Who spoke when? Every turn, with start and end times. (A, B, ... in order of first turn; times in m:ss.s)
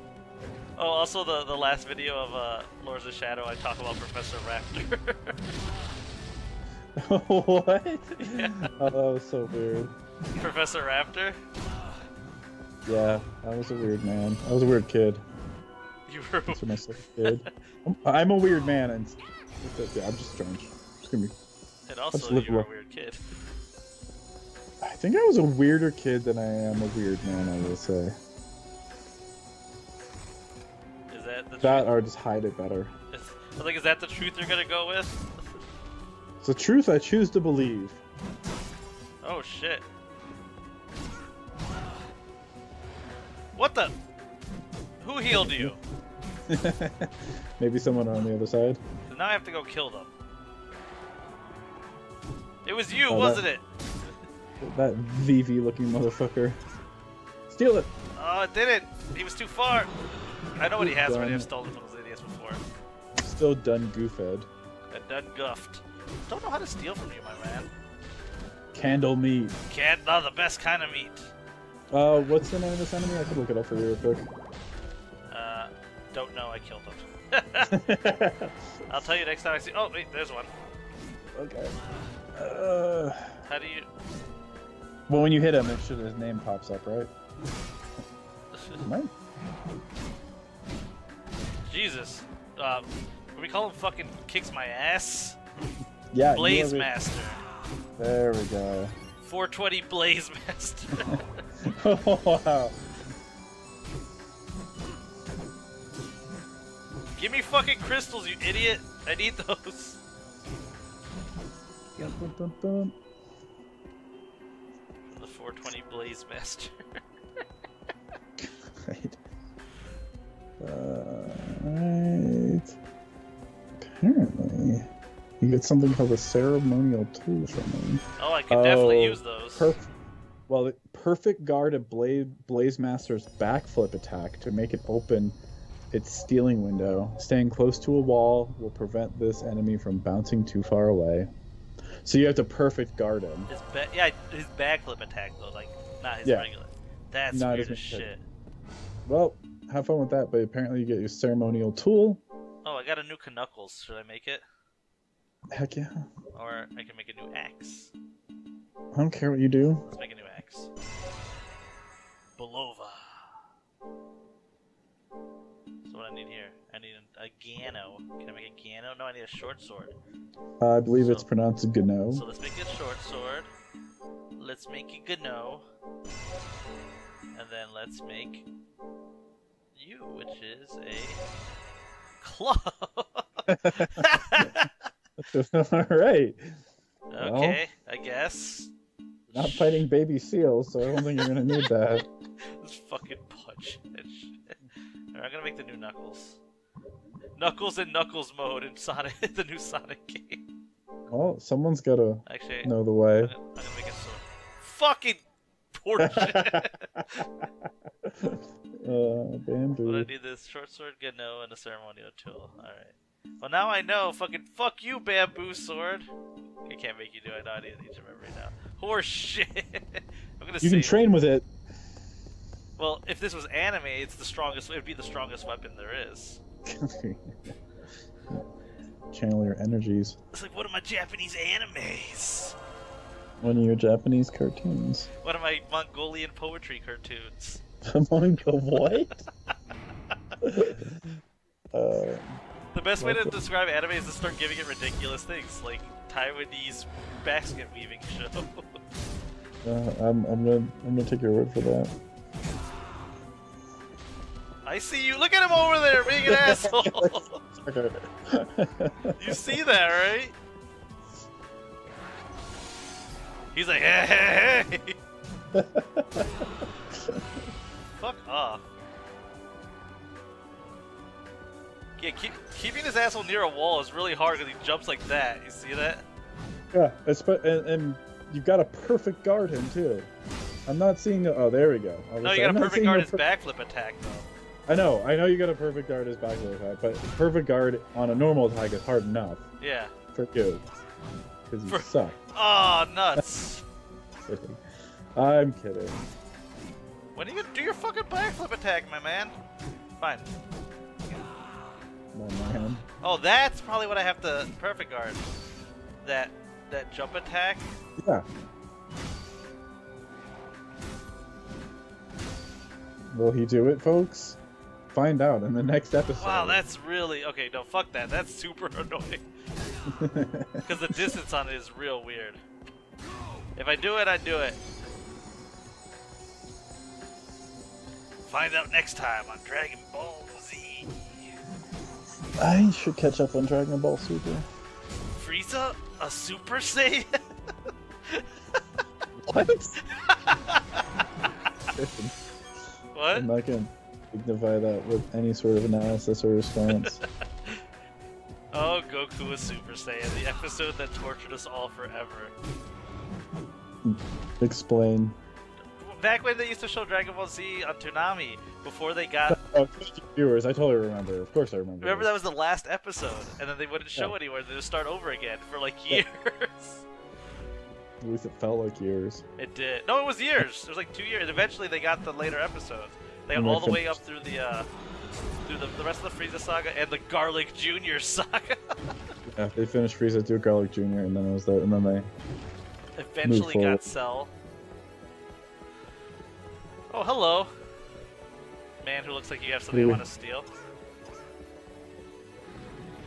0:00.8-0:05.5 A
0:07.0-0:09.9 B
0:08.2-0:08.7 A
0:10.4-0:11.4 A
0:12.8-0:15.2 B
0:16.1-0:17.5 A
0:16.5-0:21.3 B
0:21.9-0:23.2 A
0:22.1-0:22.7 B
0:24.8-0:28.2 B
0:31.1-0:31.9 A
0:31.6-0:32.9 B
0:33.1-0:35.6 A
0:36.4-0:38.0 B
0:39.2-0:39.8 A
0:43.6-0:43.9 A
0:45.0-0:45.8 A
0:45.3-0:45.8 B
0:46.5-0:48.8 B
0:49.1-0:50.1 A
0:52.6-0:53.6 A
0:53.1-0:53.4 B
0:54.6-0:56.6 B
0:57.5-0:57.9 B
0:58.2-0:59.9 A
1:00.6-1:02.6 A
1:00.8-1:01.5 B
1:03.2-1:04.5 B
1:04.9-1:07.7 A
1:08.7-1:09.5 B
1:09.7-1:11.3 A
1:11.9-1:14.3 B
1:15.3-1:17.8 A
1:17.7-1:18.6 B
1:18.9-1:20.5 A
1:21.3-1:21.8 B
1:22.4-1:23.4 B
1:23.4-1:23.9 A
1:25.1-1:27.1 B
1:28.6-1:28.8 A
1:28.8-1:29.1 B
1:31.7-1:35.4 A
1:36.1-1:36.9 B
1:36.3-1:37.4 A
1:38.0-1:39.0 B
1:39.2-1:41.2 A
1:41.6-1:42.8 B
1:47.2-1:50.0 A
1:52.0-1:52.9 B
1:55.1-1:57.0 A
1:58.4-1:59.2 B
2:00.6-2:02.8 B
2:03.8-2:04.9 B
2:05.4-2:09.8 B
2:08.2-2:09.8 A
2:10.5-2:15.4 B
2:15.9-2:21.3 B
2:22.0-2:23.5 B
2:23.5-2:28.2 A
2:27.3-2:28.1 B
2:29.1-2:32.2 B
2:32.6-2:34.4 A
2:35.5-2:36.1 B
2:36.3-2:37.9 A
2:38.9-2:39.8 B
2:39.9-2:40.7 A
2:42.4-2:43.3 A
2:45.8-2:50.0 A
2:50.6-2:52.2 B
2:51.0-2:51.3 A
2:52.1-2:53.5 A
2:54.4-2:55.6 A
2:57.4-2:58.4 A
2:59.8-3:01.2 A
3:02.2-3:04.7 A
3:03.5-3:04.5 B
3:05.2-3:06.6 B
3:07.1-3:08.7 A
3:07.2-3:07.6 B
3:09.3-3:09.9 A
3:09.3-3:12.1 B
3:12.6-3:14.6 A
3:15.1-3:16.4 A
3:17.4-3:20.4 A
3:21.1-3:23.3 B
3:22.3-3:27.2 A
3:26.0-3:27.0 B
3:28.0-3:30.1 B
3:29.8-3:36.1 A
3:36.7-3:41.0 A
3:40.6-3:41.5 B
3:42.8-3:46.4 A
3:46.7-3:47.3 B
3:49.1-3:50.2 B
3:50.3-3:52.6 A
3:53.4-3:55.1 B
3:55.2-3:57.6 A
3:57.9-3:59.2 B
4:00.4-4:01.0 B
4:01.7-4:02.4 B
4:02.7-4:08.8 A
4:03.0-4:03.4 B
4:09.6-4:11.9 B
4:14.6-4:17.4 A
4:16.1-4:19.6 B
4:19.2-4:20.4 A
4:23.5-4:25.0 A
4:25.5-4:27.2 B
4:27.9-4:28.7 A
4:32.0-4:36.0 A
4:36.7-4:40.1 B
4:40.7-4:43.2 B
4:42.2-4:44.3 A
4:44.7-4:49.4 B
4:49.6-4:49.9 A
4:50.1-4:50.6 B
4:51.5-4:52.2 B
4:51.7-4:53.6 A
4:54.3-4:54.6 B
4:55.2-4:56.0 B
4:57.2-4:59.4 A
5:00.0-5:00.3 A
5:02.1-5:02.8 B
5:03.0-5:05.2 A
5:06.0-5:07.7 A
5:08.0-5:08.2 B
5:13.1-5:14.4 B
5:14.9-5:16.6 B
5:16.2-5:19.2 A
5:19.9-5:21.2 B
5:20.6-5:22.4 A
5:23.6-5:24.6 A
5:28.3-5:30.9 A
5:32.4-5:34.5 B
5:35.1-5:37.2 A
5:39.2-5:39.8 B
5:39.9-5:40.8 A
5:41.7-5:42.2 B
5:42.9-5:43.3 A
5:43.1-5:47.0 B
5:46.7-5:47.6 A
5:48.5-5:52.3 A
5:53.8-5:55.2 B
5:55.8-5:59.4 A
5:59.3-6:02.1 B
6:01.8-6:06.8 A
6:08.0-6:09.2 B
6:09.4-6:14.7 A
6:13.3-6:14.0 B
6:15.5-6:19.0 A
6:19.3-6:22.1 B
6:23.0-6:24.3 A
6:23.2-6:23.9 B
6:26.9-6:27.5 A
6:28.8-6:30.5 A
6:29.7-6:30.0 B